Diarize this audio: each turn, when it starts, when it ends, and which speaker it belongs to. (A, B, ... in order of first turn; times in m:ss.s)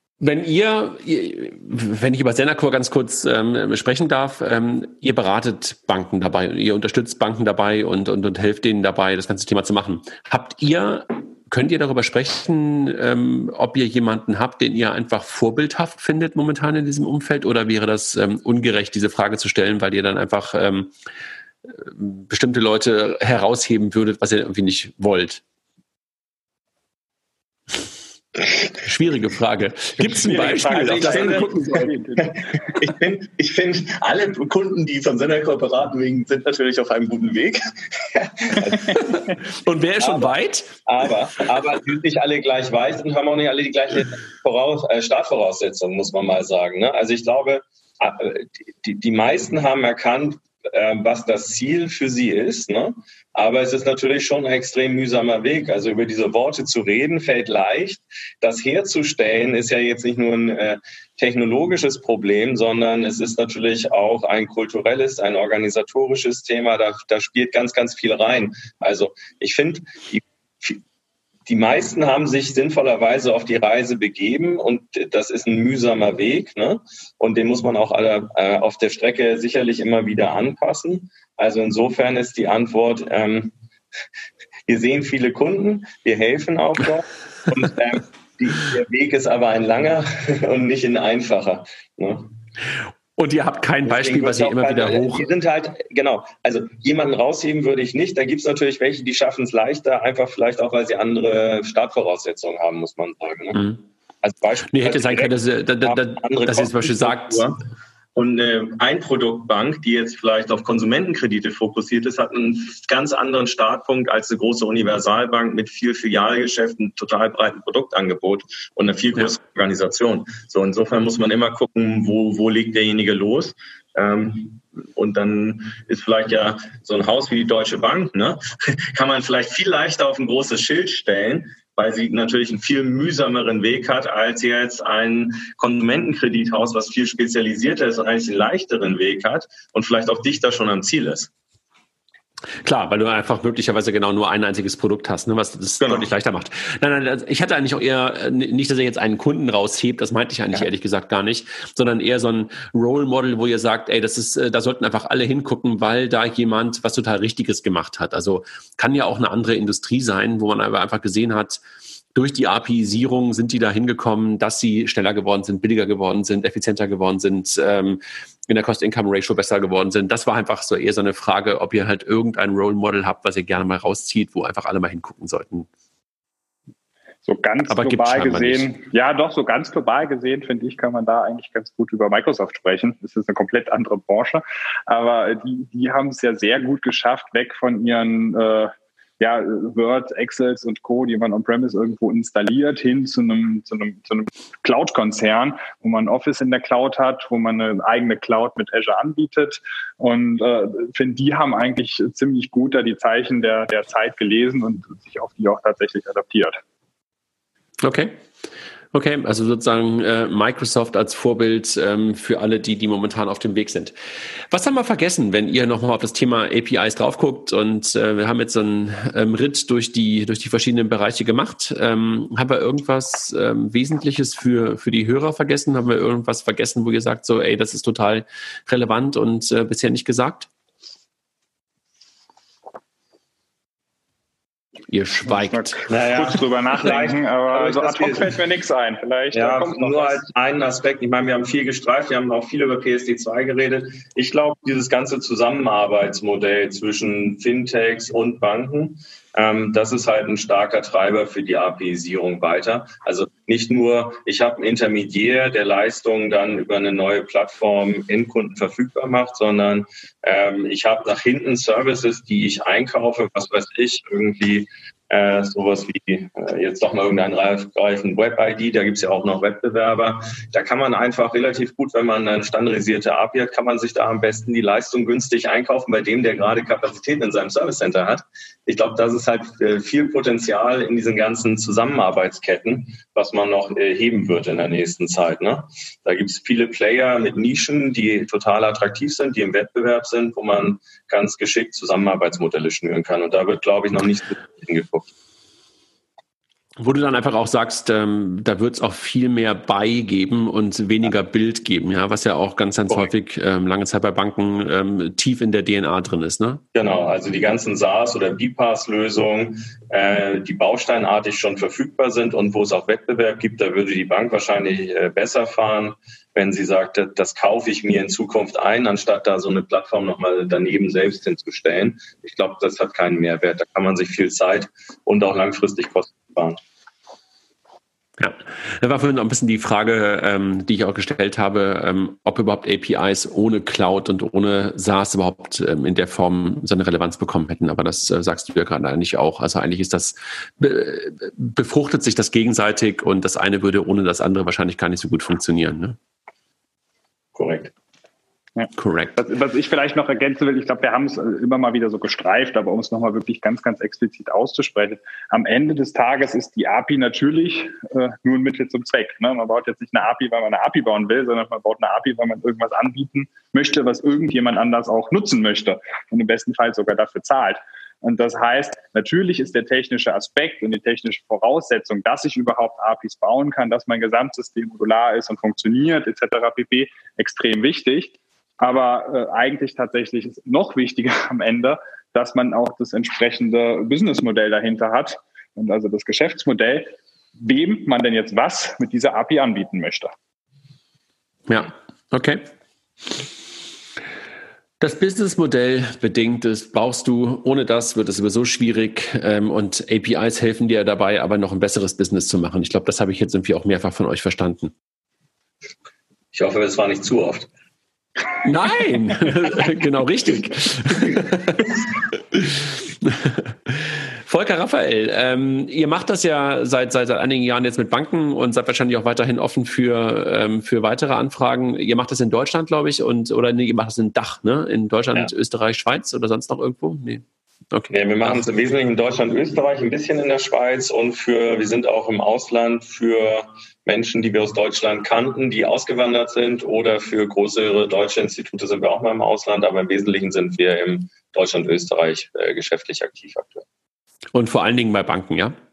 0:00.2-0:20.9 A
0:21.7-0:25.4 A
0:28.8-0:31.9 A
0:30.2-0:39.3 B
0:30.4-0:32.4 C
0:38.9-0:40.8 A
0:40.0-0:40.3 B
0:40.8-1:10.8 B
1:11.4-1:23.5 B
1:24.7-1:32.3 B
1:33.2-1:35.3 A
1:33.8-1:43.6 B
1:43.5-1:43.8 A
1:44.2-1:47.6 B
1:44.7-1:47.4 A
1:48.1-2:21.3 B
2:22.6-2:41.6 A
2:25.8-2:26.1 B
2:42.1-2:55.7 A
2:57.2-3:26.6 C
2:57.7-2:58.7 A
3:27.8-3:28.2 A
3:28.9-3:33.9 A
3:34.5-3:50.5 A
3:54.9-3:55.8 A
3:55.3-4:00.2 C
3:55.9-3:58.3 B
3:59.3-4:55.1 B
4:56.8-5:06.6 A
5:06.7-5:26.6 B
5:28.2-5:46.0 A
5:47.3-5:47.7 B
5:48.6-6:30.1 C
5:48.8-5:49.2 A
6:31.5-6:32.4 A
6:34.8-6:44.7 A
6:46.3-6:47.5 B
6:48.4-6:51.7 A
6:52.3-7:08.4 A
7:07.9-7:23.6 B
7:24.3-7:25.5 A